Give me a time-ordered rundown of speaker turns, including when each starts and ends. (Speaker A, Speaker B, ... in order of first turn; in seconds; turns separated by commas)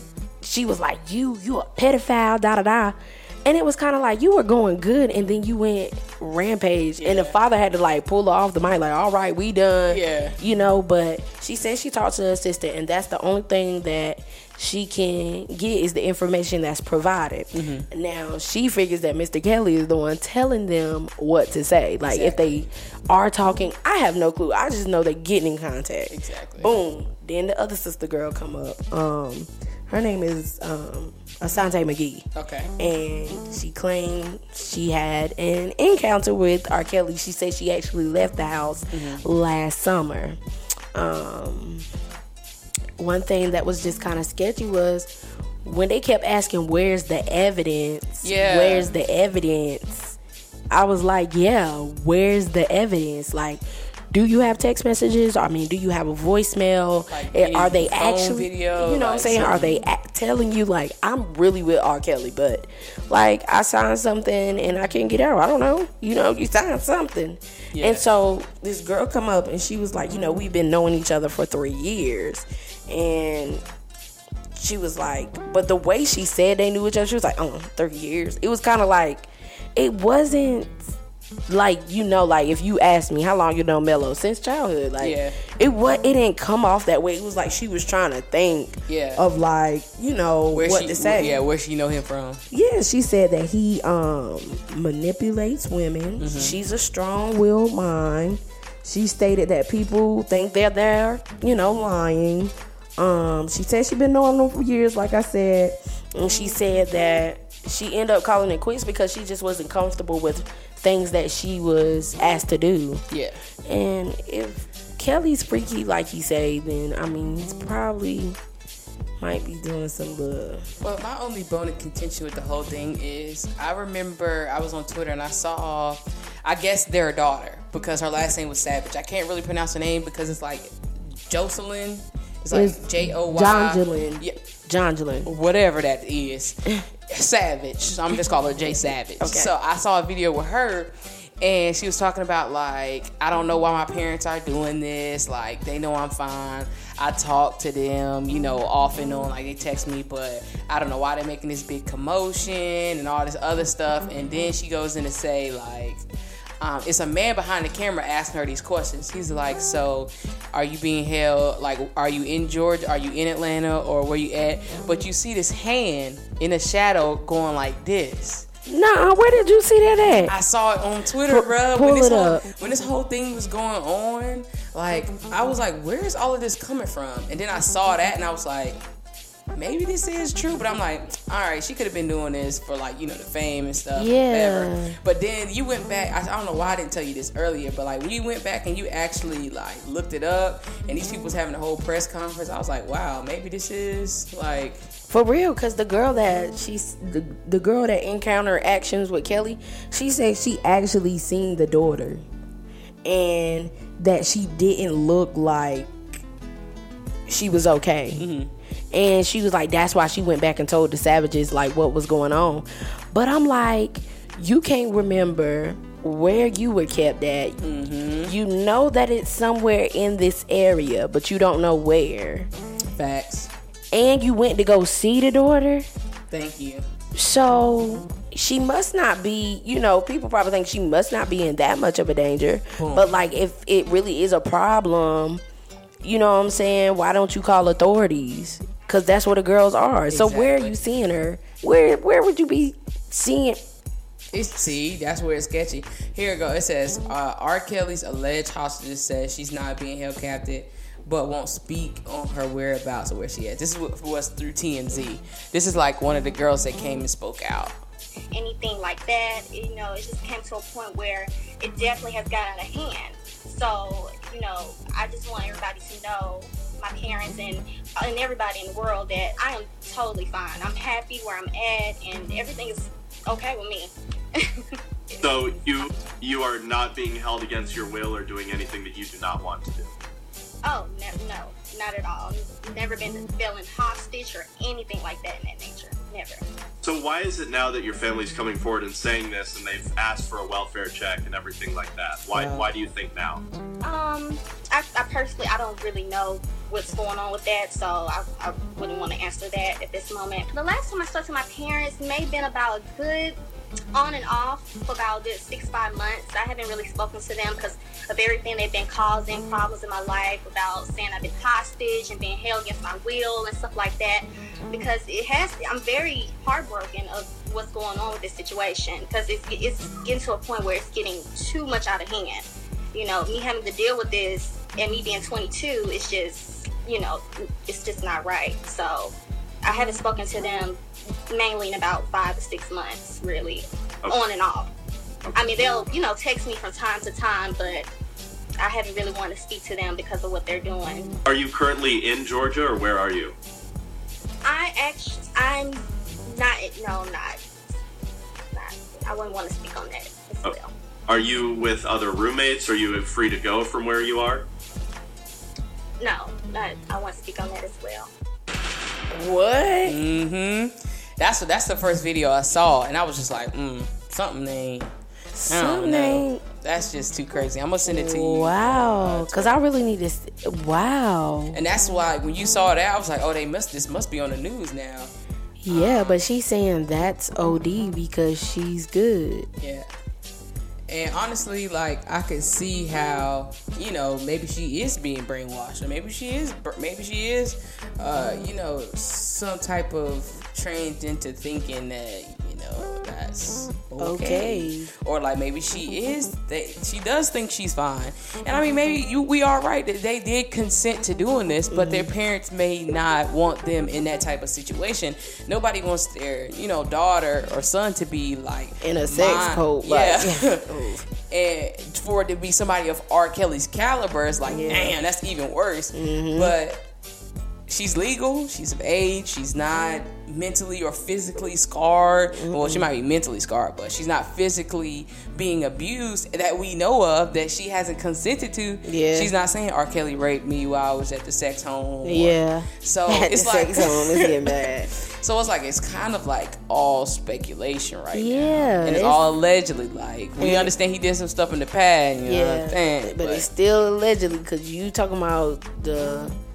Speaker A: 0.4-40.4, Speaker B: 7.0-7.4, Speaker B: 9.9-10.4, Speaker B: 17.5-17.9, Speaker B: 22.1-22.4, Speaker B: 26.1-26.7, Speaker B: 32.4-32.7, Speaker B: 38.9-39.2, Speaker A: 41.0-41.9, Speaker A: 43.0-45.1, Speaker A: 45.6-50.2, Speaker B: 48.2-48.9, Speaker A: 50.7-73.6, Speaker B: 57.1-59.8, Speaker B: 67.7-68.0, Speaker A: 74.5-80.8, Speaker A: 81.5-91.4, Speaker B: 85.0-85.4, Speaker B: 88.9-89.2, Speaker B: 90.5-92.4, Speaker A: 92.5-113.0, Speaker B: 96.2-96.6, Speaker B: 113.1-113.4, Speaker A: 113.7-118.4, Speaker A: 119.2-120.7, Speaker B: 120.8-134.4, Speaker A: 132.5-135.3, Speaker B: 135.2-156.0, Speaker A: 139.2-139.5, Speaker B: 156.6-168.5, Speaker A: 168.7-170.3, Speaker B: 170.3-178.8, Speaker A: 171.3-172.5, Speaker B: 179.5-194.8, Speaker A: 184.0-185.0, Speaker A: 195.1-202.2, Speaker A: 203.1-206.2, Speaker A: 207.3-208.3, Speaker B: 208.2-208.5, Speaker A: 208.9-217.6, Speaker B: 217.6-218.3, Speaker A: 218.2-222.5, Speaker B: 222.9-223.5, Speaker A: 223.9-225.9, Speaker B: 226.3-226.8, Speaker A: 227.1-235.4, Speaker B: 232.8-233.1, Speaker A: 236.0-243.6, Speaker B: 240.1-240.8, Speaker B: 244.3-257.8, Speaker C: 258.3-275.4, Speaker D: 275.2-279.9, Speaker C: 280.6-286.4, Speaker D: 286.8-293.4, Speaker C: 293.8-303.4, Speaker C: 303.9-330.8, Speaker C: 331.3-334.7, Speaker C: 335.3-337.9, Speaker C: 338.6-341.1, Speaker D: 341.3-343.4, Speaker C: 344.4-347.4, Speaker C: 348.5-350.7, Speaker D: 351.1-354.5, Speaker C: 356.0-358.1, Speaker A: 359.1-360.0, Speaker B: 359.9-364.9, Speaker A: 365.3-366.4, Speaker B: 365.5-369.6, Speaker A: 367.9-371.6, Speaker B: 371.5-375.1, Speaker A: 375.6-379.5, Speaker B: 375.7-376.2, Speaker B: 379.6-379.9, Speaker B: 380.9-416.8, Speaker A: 394.0-394.9, Speaker A: 401.7-402.1, Speaker A: 408.8-411.1, Speaker A: 414.5-414.9, Speaker A: 415.9-416.6, Speaker B: 417.7-443.5, Speaker A: 422.3-422.9, Speaker A: 428.9-429.3, Speaker A: 432.0-434.9, Speaker A: 438.1-439.2, Speaker A: 440.4-440.7, Speaker A: 442.2-446.4